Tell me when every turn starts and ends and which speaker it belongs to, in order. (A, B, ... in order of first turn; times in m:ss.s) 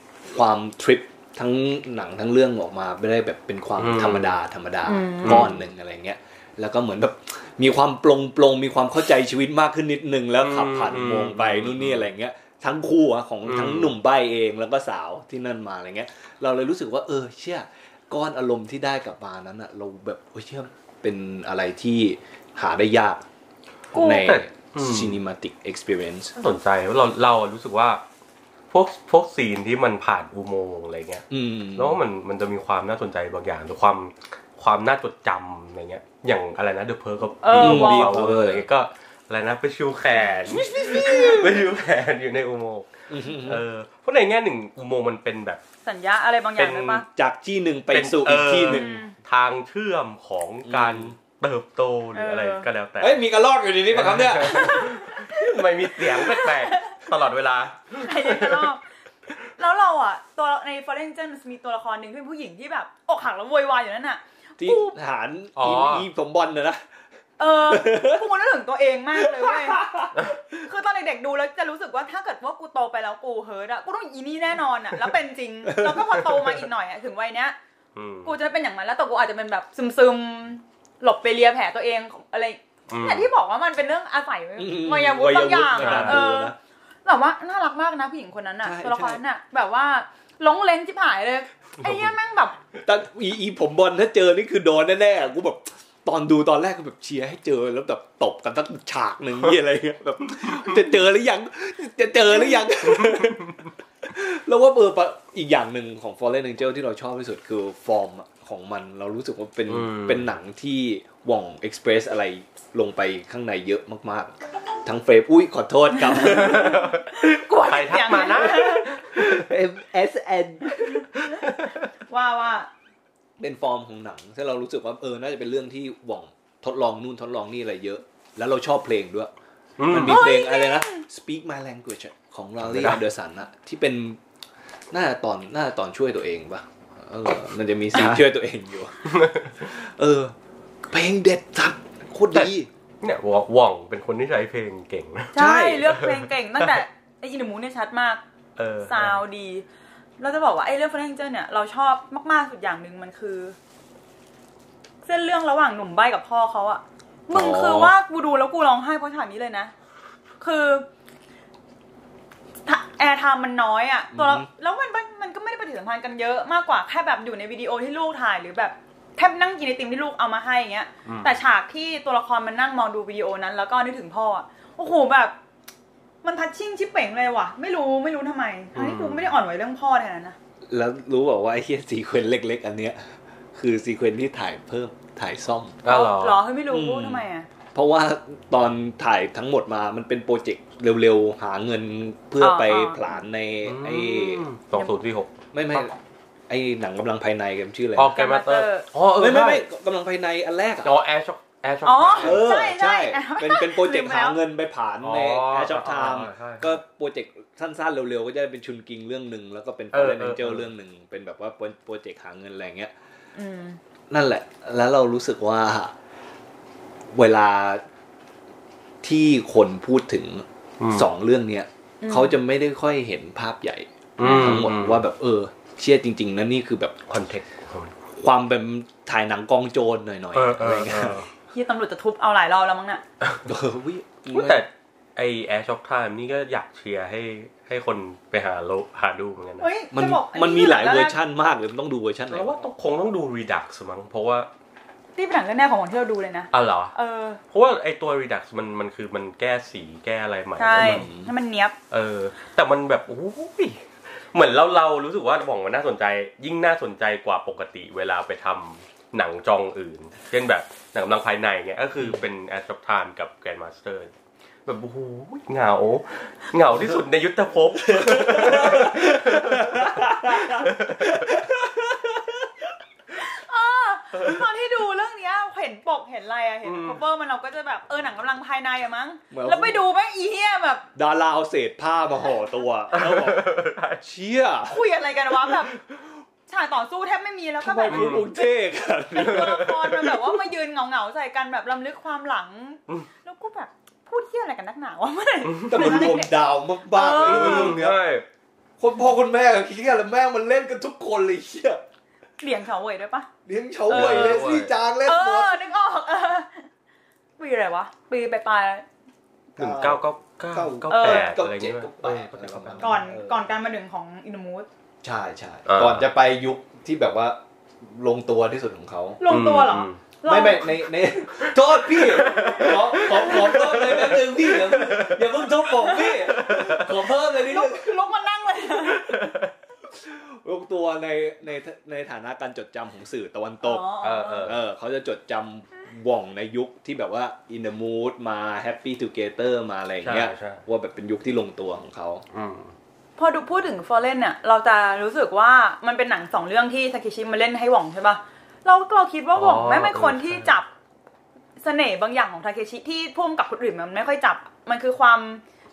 0:00.3-0:23.2 A
0:03.8-0:04.4 B
0:04.8-0:05.5 C
0:05.2-0:05.5 B
0:10.4-0:12.1 B
0:13.4-0:13.9 B
0:23.9-0:24.3 C
0:23.9-0:26.4 A
0:24.0-0:25.2 B
0:26.4-0:28.0 B
0:28.7-0:45.6 B
0:31.3-0:32.0 A
0:37.4-0:38.2 C
0:37.5-0:38.6 A
0:40.5-0:41.6 A
0:43.1-0:43.6 A
0:45.8-0:47.0 C
0:46.6-0:47.0 B
0:47.1-0:49.0 A
0:47.9-0:53.2 B
0:48.6-0:49.1 C
0:50.6-0:51.1 A
0:52.1-0:52.7 C
0:53.0-0:55.0 A
0:53.9-0:58.7 B
0:54.4-0:57.0 C
0:58.0-0:58.8 C
0:59.6-1:05.0 C
1:04.6-1:06.8 A
1:05.6-1:06.1 B
1:07.4-1:17.6 C
1:07.6-1:08.3 A
1:09.2-1:10.6 A
1:15.6-1:16.5 A
1:17.9-1:18.3 B
1:18.2-1:32.6 C
1:22.9-1:23.3 B
1:24.6-1:26.5 A
1:25.7-1:26.3 B
1:28.6-1:29.2 A
1:31.8-1:32.1 B
1:32.8-1:56.8 A
1:42.9-1:43.6 B
1:49.7-1:50.3 B
1:55.9-1:58.9 C
1:56.2-1:59.5 B
1:58.5-2:01.1 A
2:01.0-2:01.4 C
2:01.2-2:01.8 B
2:02.1-2:02.7 C
2:03.4-2:09.3 A
2:09.8-2:10.3 B
2:09.9-2:14.2 A
2:10.0-2:11.0 C
2:12.6-2:13.0 B
2:14.9-2:22.7 A
2:17.9-2:18.2 B
2:19.0-2:19.6 B
2:22.3-2:25.4 B
2:25.3-2:28.2 C
2:25.3-2:26.0 A
2:25.9-2:26.8 B
2:28.6-2:29.2 B
2:28.8-2:29.6 C
2:30.2-2:33.6 C
2:35.0-2:39.7 C
2:37.3-2:37.9 A
2:40.4-2:40.9 C
2:42.6-2:55.3 C
2:44.1-2:44.5 A
2:51.0-2:51.4 B
2:56.2-3:00.4 C
2:58.7-2:59.3 B
3:00.7-3:05.8 A
3:05.8-3:06.4 B
3:05.8-3:07.5 C
3:06.7-3:14.4 A
3:12.4-3:13.2 C
3:13.6-3:15.9 B
3:15.5-3:16.0 A
3:16.5-3:18.1 A
3:18.0-3:19.6 B
3:18.0-3:18.8 C
3:19.1-3:20.9 A
3:20.8-3:22.5 B
3:21.8-3:24.4 C
3:22.2-3:32.9 A
3:25.0-3:26.8 B
3:29.9-3:30.7 B
3:33.4-3:33.8 C
3:34.1-3:35.9 A
3:37.1-3:37.8 A
3:39.0-3:47.4 A
3:40.8-3:41.1 B
3:42.0-3:42.4 C
3:44.2-3:45.0 B
3:44.2-3:44.6 C
3:47.1-3:47.9 B
3:48.1-3:51.3 A
3:50.3-3:51.3 B
3:51.5-3:53.0 C
3:53.4-3:54.6 A
3:54.3-3:59.7 B
3:59.6-4:01.2 C
3:59.9-4:02.6 A
4:02.3-4:04.5 B
4:05.2-4:07.4 C
4:06.5-4:06.9 B
4:07.5-4:11.1 B
4:10.6-4:11.8 C
4:10.8-4:11.3 A
4:11.9-4:24.1 B
4:22.0-4:22.2 A
4:24.6-4:31.4 B
4:27.8-4:32.7 A
4:33.1-4:40.8 C
4:36.6-4:37.0 B
4:39.3-4:39.8 A
4:40.9-4:44.8 A
4:42.9-4:44.0 B
4:44.6-4:45.8 C
4:46.5-4:48.5 C
4:47.6-4:49.6 A
4:47.9-4:48.3 B
4:49.1-4:56.3 C
4:49.2-4:50.3 B
4:55.4-4:56.2 B
4:55.6-4:58.0 A
4:56.9-4:57.8 C
4:57.2-4:58.2 B
4:58.8-5:01.8 A
5:02.4-5:03.3 C
5:03.4-5:05.7 A
5:03.9-5:04.7 B
5:03.9-5:04.4 C
5:05.0-5:06.7 C
5:07.4-5:08.8 C
5:09.6-5:13.0 B
5:09.6-5:13.4 A
5:10.9-5:11.3 C
5:12.8-5:14.7 C
5:15.0-5:19.2 A
5:15.7-5:16.1 B
5:19.2-5:20.9 C
5:19.3-5:20.0 B
5:20.2-5:27.9 A
5:21.4-5:25.4 B
5:22.3-5:23.6 C
5:25.7-5:26.5 C
5:26.3-5:27.0 B
5:27.2-5:29.2 C
5:28.8-5:29.5 B
5:29.9-5:33.8 A
5:33.6-5:34.6 C
5:34.0-5:34.6 B
5:34.4-5:42.2 A
5:40.0-5:40.6 B
5:42.3-5:42.7 B
5:43.2-5:50.7 C
5:49.3-5:50.6 B
5:51.6-5:55.4 C